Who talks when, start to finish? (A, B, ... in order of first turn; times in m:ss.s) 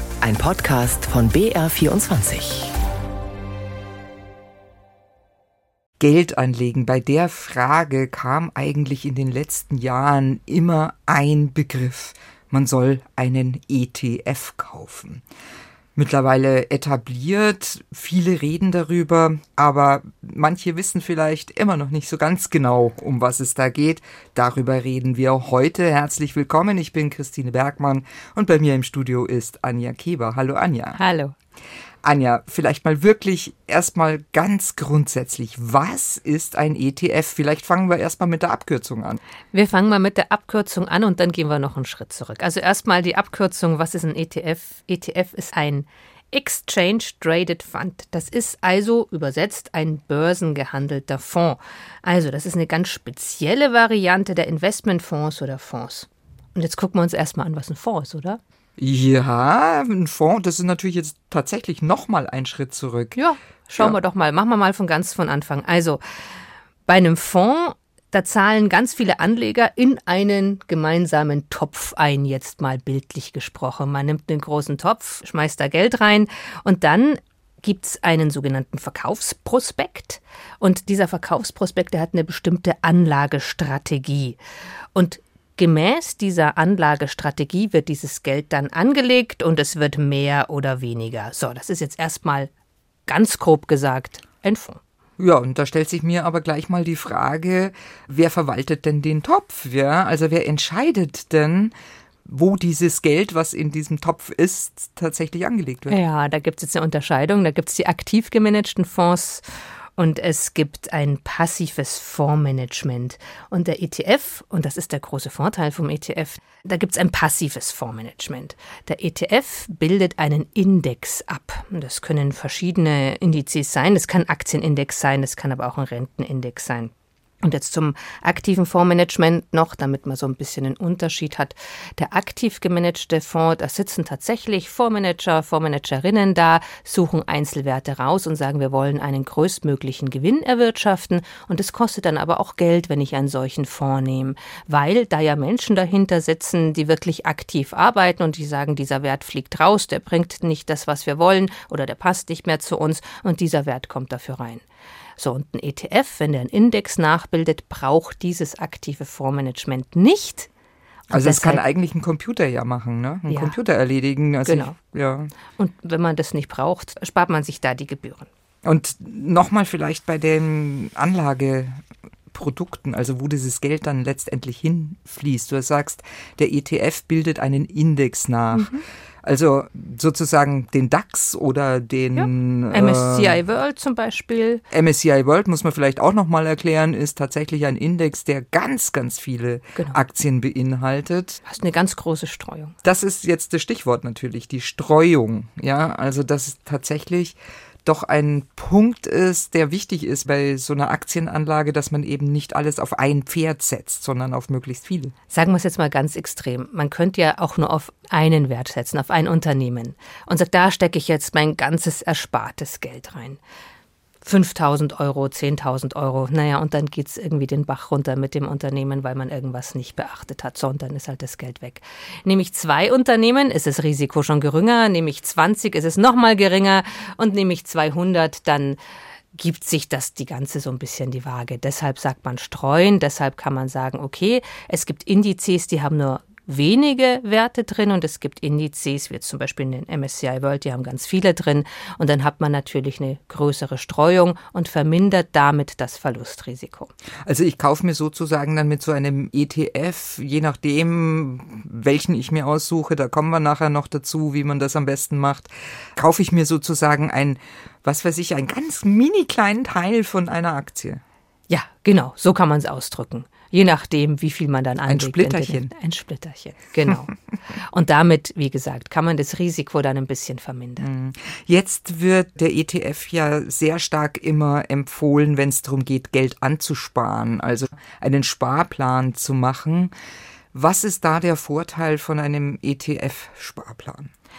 0:00.2-0:02.7 A
0:06.0-0:15.2 B
0:16.0-0:31.0 B
0:31.0-0:31.4 C
0:32.0-0:39.2 B
0:39.5-0:58.4 C
0:58.8-1:03.2 B
1:03.2-1:06.0 C
1:06.9-1:24.4 C
1:24.9-1:32.5 C
1:33.1-1:34.8 C
1:35.2-1:41.7 B
1:42.3-1:46.0 B
1:45.9-1:49.4 C
1:50.0-2:34.6 C
2:35.2-2:40.5 C
2:41.1-2:41.6 C
2:41.1-2:45.3 B
2:43.3-2:43.6 C
2:44.4-2:44.8 C
2:45.5-2:48.3 C
2:48.6-3:03.4 B
2:58.5-2:58.8 C
3:02.2-3:04.6 C
3:04.7-3:11.4 B
3:11.4-3:12.8 C
3:12.8-3:25.1 B
3:25.3-3:33.4 C
3:34.2-3:48.8 C
3:49.3-4:06.9 C
4:07.3-4:21.0 B
4:21.5-4:30.9 C
4:24.8-4:25.7 B
4:30.8-4:39.9 B
4:40.5-4:44.1 B